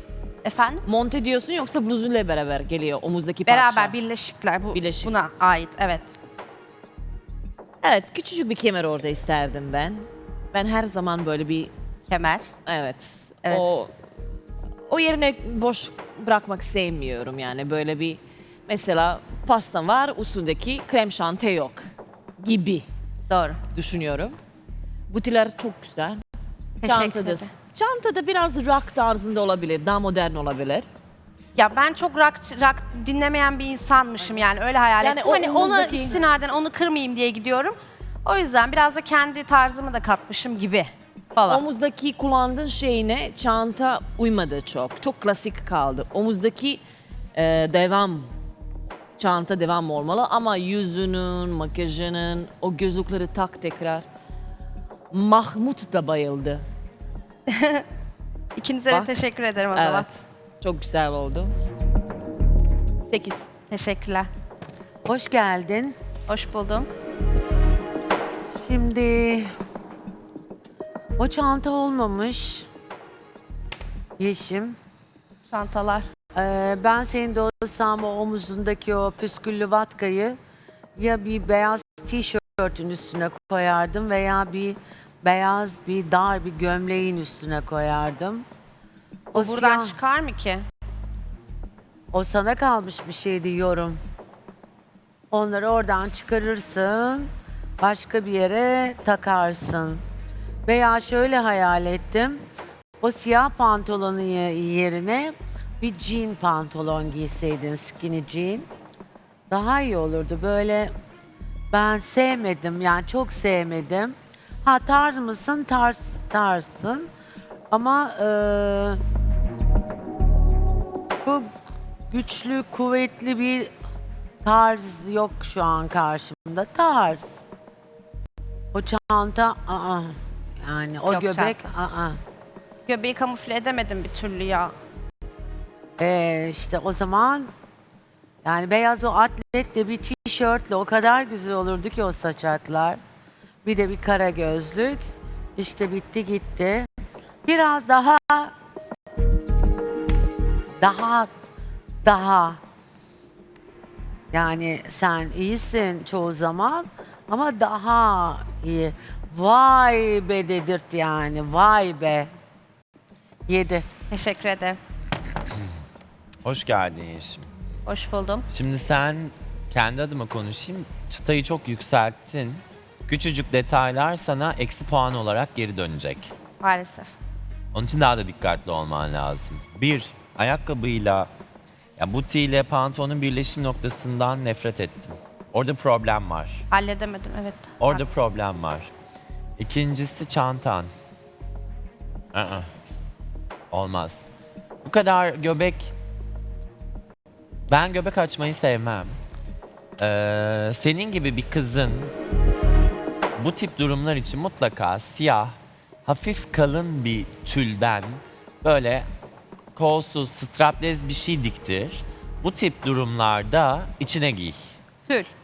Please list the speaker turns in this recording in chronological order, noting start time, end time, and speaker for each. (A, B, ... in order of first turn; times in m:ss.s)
0:00.4-0:00.8 A
0:00.8-0:04.0 B
0:03.5-0:06.1 A
0:04.7-0:05.1 B
0:07.8-0:11.7 B
0:12.1-0:12.5 A
0:12.6-0:13.9 B
0:14.9-0:21.9 B
0:22.4-0:22.9 B
0:23.3-0:23.6 A
0:23.7-0:24.4 B
0:25.1-0:26.2 B
0:26.8-0:27.5 A
0:26.8-0:30.9 B
0:31.5-0:41.6 A
0:35.0-0:36.2 B
0:41.4-0:46.8 B
0:47.3-0:48.3 B
0:49.2-0:54.1 B
0:55.1-0:56.6 B
0:57.5-0:57.8 A
0:58.5-1:00.1 A
0:59.7-1:01.5 B
1:03.0-1:03.5 B
1:03.7-1:04.3 A
1:05.0-1:05.9 C
1:06.3-1:06.9 A
1:08.5-1:09.5 C
1:11.2-1:12.6 C
1:14.2-1:14.7 C
1:15.5-1:16.1 A
1:16.3-1:20.4 C
1:21.0-1:28.4 C
1:29.3-1:30.0 C
1:29.3-1:30.6 A
1:32.1-1:34.0 C
1:35.3-1:37.3 C
1:37.8-1:40.0 C
1:40.6-1:42.4 C
1:43.0-1:48.7 C
1:49.5-1:50.9 C
1:51.7-1:57.1 C
1:57.7-1:59.0 C
2:02.1-2:03.7 C
2:04.4-2:07.4 C
2:08.7-2:10.1 C
2:10.6-2:12.2 C
2:11.1-2:11.6 A
2:12.8-2:14.7 A
2:16.0-2:17.5 C
2:18.4-2:23.0 C
2:23.6-2:25.0 C
2:25.6-2:26.9 C
2:27.4-2:28.5 C
2:30.8-2:31.3 C
2:32.0-2:32.6 C
2:34.3-2:42.3 C
2:43.5-2:43.8 C
2:44.1-2:44.8 A
2:46.4-2:47.5 D
2:47.8-2:48.4 A
2:48.5-2:56.3 D
2:56.6-2:57.1 A
2:57.7-3:01.3 D
3:02.0-3:06.6 D
3:06.7-3:08.0 A
3:07.8-3:08.9 D
3:09.6-3:10.9 D
3:12.3-3:12.7 D
3:13.7-3:14.2 D
3:14.8-3:15.9 D
3:17.7-3:19.2 D
3:20.0-3:22.1 D
3:23.4-3:29.1 D
3:29.7-3:34.7 D